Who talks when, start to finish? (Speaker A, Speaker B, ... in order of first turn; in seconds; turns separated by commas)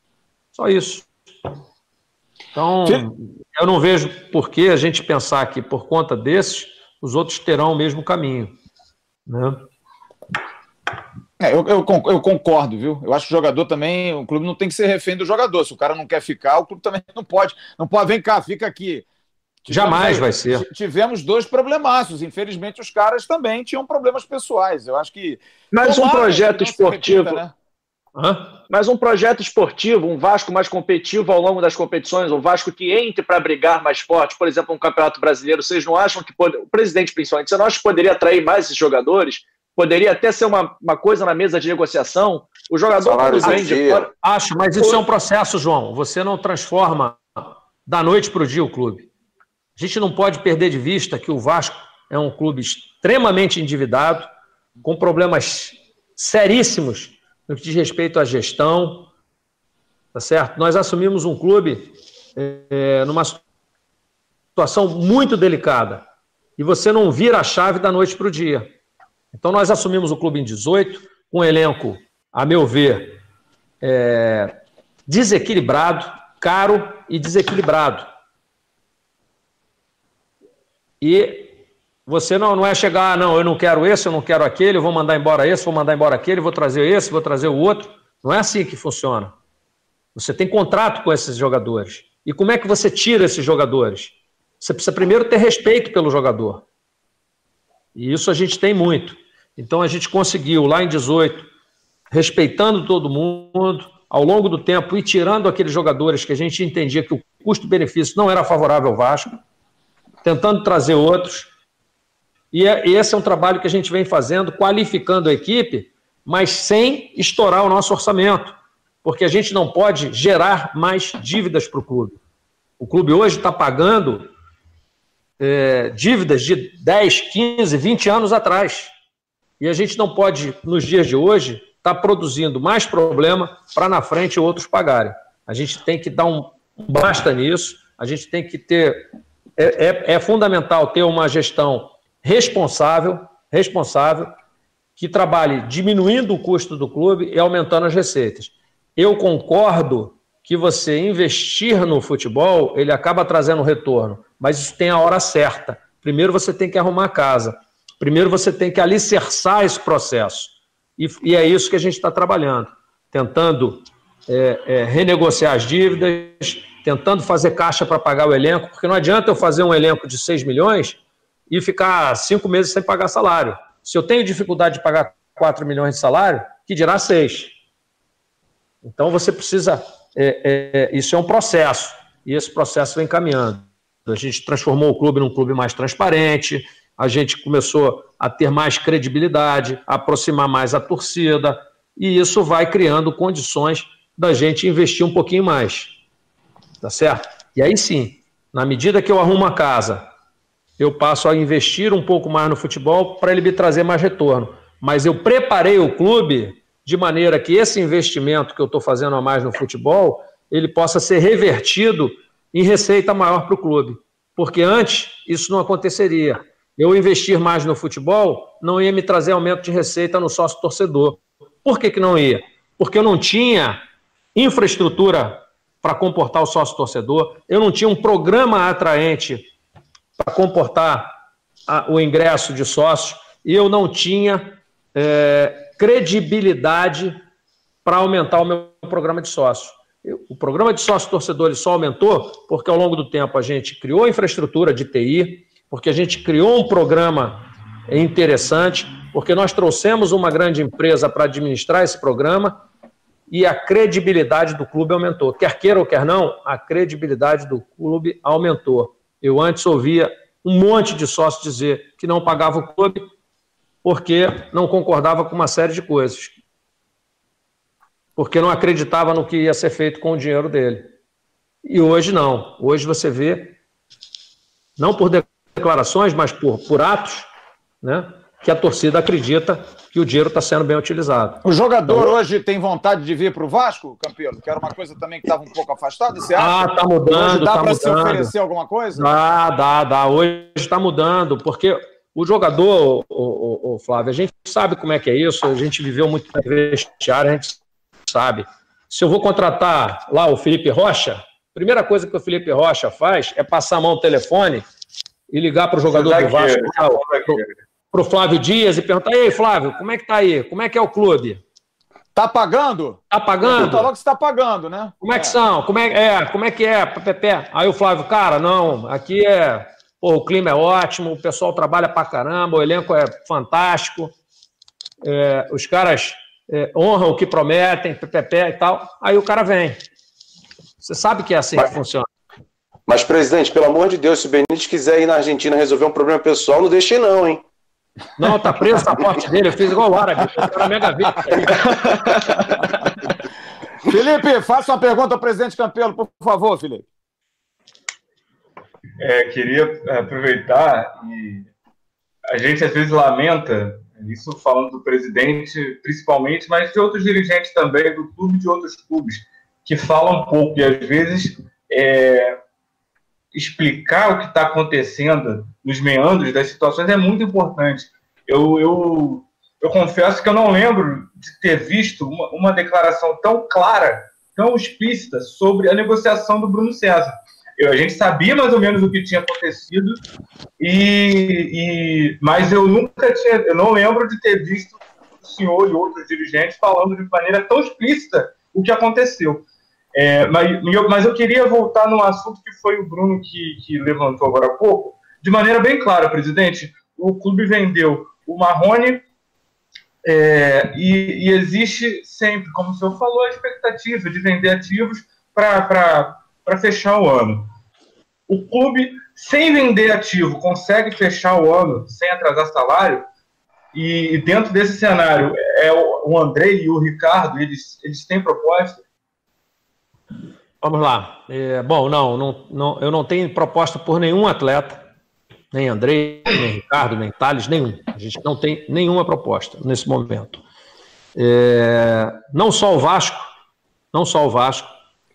Speaker A: 0.5-1.1, Speaker A: 2.5-8.5, Speaker A: 9.3-9.7, Speaker B: 11.4-19.1, Speaker B: 19.6-27.5, Speaker A: 19.7-20.6, Speaker C: 25.7-27.4, Speaker A: 28.2-28.6, Speaker C: 28.7-44.1, Speaker D: 43.0-44.1, Speaker A: 44.2-49.1, Speaker A: 49.8-54.3, Speaker A: 54.8-59.1, Speaker A: 60.1-63.4, Speaker A: 64.6-66.0, Speaker A: 66.6-68.7, Speaker A: 69.3-73.2, Speaker A: 73.8-74.5, Speaker A: 75.1-78.1, Speaker A: 81.0-81.5, Speaker A: 82.1-89.3, Speaker A: 90.2-96.6, Speaker A: 98.0-101.5, Speaker A: 102.1-109.3, Speaker A: 110.2-111.5, Speaker A: 112.5-122.2, Speaker A: 122.8-124.3, Speaker A: 125.4-128.9, Speaker A: 129.6-139.1, Speaker A: 139.6-144.3, Speaker A: 145.0-171.0, Speaker A: 171.5-177.5, Speaker A: 178.8-195.9, Speaker A: 196.8-200.1, Speaker A: 200.8-223.8, Speaker A: 224.3-229.5, Speaker A: 230.2-231.2, Speaker A: 231.7-237.2, Speaker A: 237.8-252.6, Speaker A: 253.3-263.1, Speaker A: 263.8-266.4, Speaker A: 268.2-270.9, Speaker A: 271.6-273.6, Speaker A: 274.8-277.3, Speaker A: 277.8-282.1, Speaker B: 281.4-289.1, Speaker A: 286.4-288.3, Speaker A: 288.9-304.7, Speaker A: 305.3-311.4, Speaker E: 305.9-307.5, Speaker B: 312.1-315.4, Speaker A: 313.1-313.9, Speaker A: 315.0-324.1, Speaker A: 325.0-329.8, Speaker A: 330.8-332.1, Speaker D: 332.9-337.4, Speaker A: 338.2-342.1, Speaker B: 343.9-346.9, Speaker E: 349.0-351.5, Speaker E: 352.3-362.4, Speaker E: 363.3-380.0, Speaker E: 380.6-399.0, Speaker E: 400.0-407.5, Speaker E: 408.3-413.1, Speaker E: 413.7-418.8, Speaker A: 420.6-424.8, Speaker A: 425.5-430.4, Speaker A: 431.2-433.3, Speaker A: 433.9-434.7